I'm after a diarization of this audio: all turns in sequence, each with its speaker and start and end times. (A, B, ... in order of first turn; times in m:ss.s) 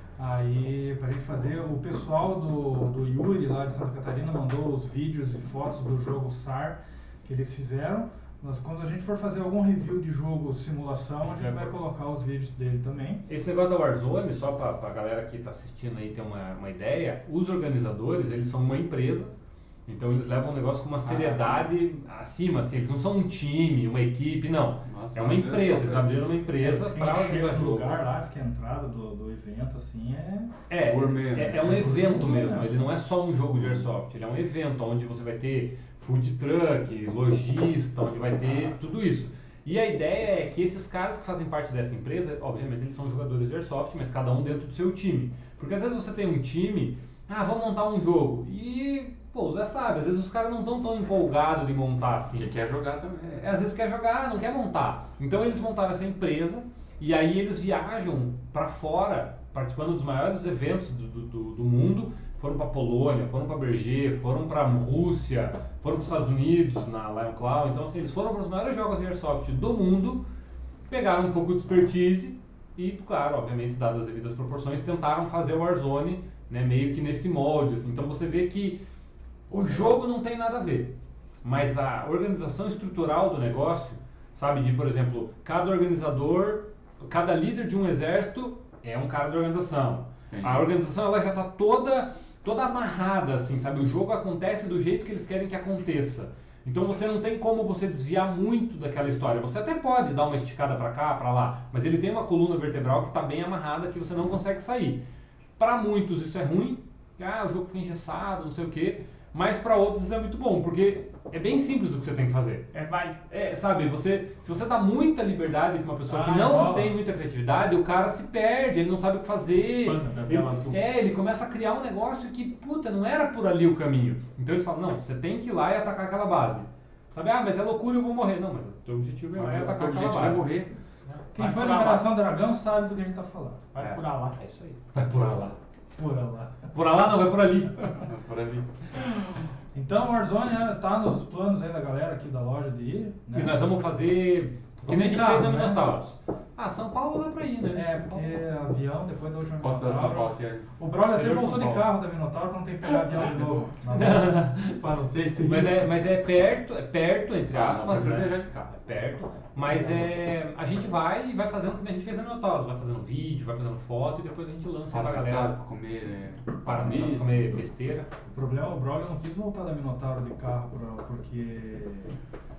0:00.2-0:13.2 A
0:11.4-0:11.7 B
0:13.3-0:19.3 C
0:19.9-0:28.0 C
0:21.0-0:21.7 B
0:24.9-0:26.4 B
0:26.6-0:30.5 A
0:30.7-0:52.5 C
0:30.8-0:32.0 B
0:31.6-0:32.8 A
0:52.3-0:53.5 B
0:53.3-1:10.2 C
1:10.9-1:18.8 C
1:19.5-1:20.9 C
1:21.4-1:45.0 C
1:30.3-1:30.7 B
1:45.6-1:52.7 C
1:52.7-1:53.2 D
1:53.3-2:10.4 C
1:56.1-1:57.0 A
1:59.6-2:00.8 D
2:09.4-2:10.7 B
2:11.1-2:12.1 D
2:11.4-2:13.6 A
2:13.7-2:14.4 D
2:13.8-2:15.6 C
2:16.0-2:16.5 A
2:16.7-2:18.1 C
2:18.0-2:18.7 B
2:19.7-2:23.7 A
2:23.3-2:28.3 C
2:24.8-2:25.9 A
2:27.7-2:34.4 A
2:29.6-2:30.7 B
2:31.1-2:31.9 C
2:33.9-2:34.8 C
2:34.7-2:35.9 D
2:35.4-2:45.6 C
2:37.5-2:38.7 B
2:39.7-2:40.1 B
2:44.9-2:47.5 B
2:46.6-2:48.1 C
2:48.3-2:52.2 A